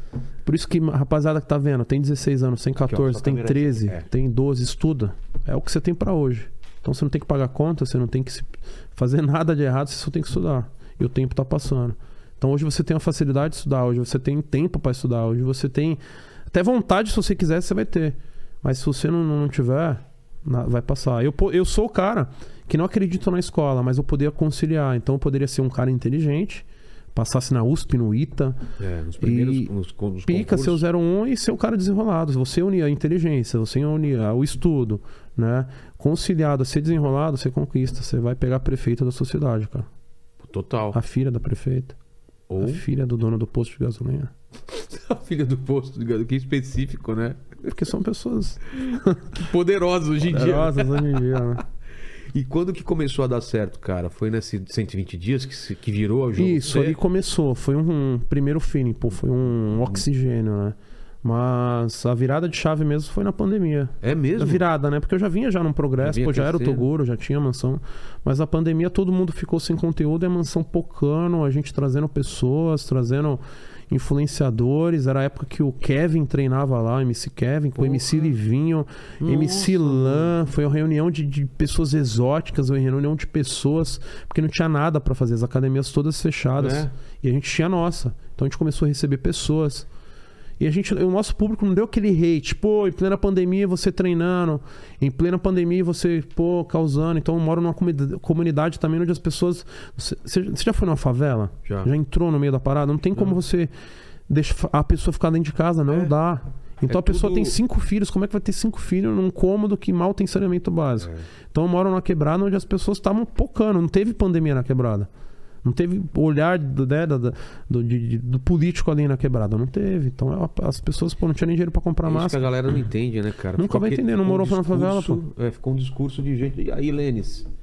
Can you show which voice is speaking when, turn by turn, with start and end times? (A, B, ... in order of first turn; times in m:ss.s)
0:00.4-0:28.6 A
0:02.8-0:04.1 B
0:28.8-0:30.8 B
0:29.2-0:29.7 A
0:30.3-0:39.9 A
0:40.4-0:41.0 B
0:40.9-0:42.0 A
0:42.5-0:42.8 B
0:42.6-0:44.3 A
0:44.7-0:47.4 B
0:47.6-0:49.4 A
0:49.3-0:51.6 B
0:50.3-0:51.6 A
0:52.3-0:57.0 B
0:56.4-1:29.9 A
1:04.0-1:04.6 B
1:06.0-1:06.9 B
1:17.8-1:18.3 B
1:19.2-1:20.4 B
1:26.6-1:26.9 B
1:30.6-1:43.7 A
1:41.7-1:41.9 B
1:44.3-1:55.1 A
1:46.9-1:47.6 B
1:51.0-1:51.3 B
1:55.6-2:02.4 A
2:02.0-2:07.5 B
2:03.6-2:05.2 A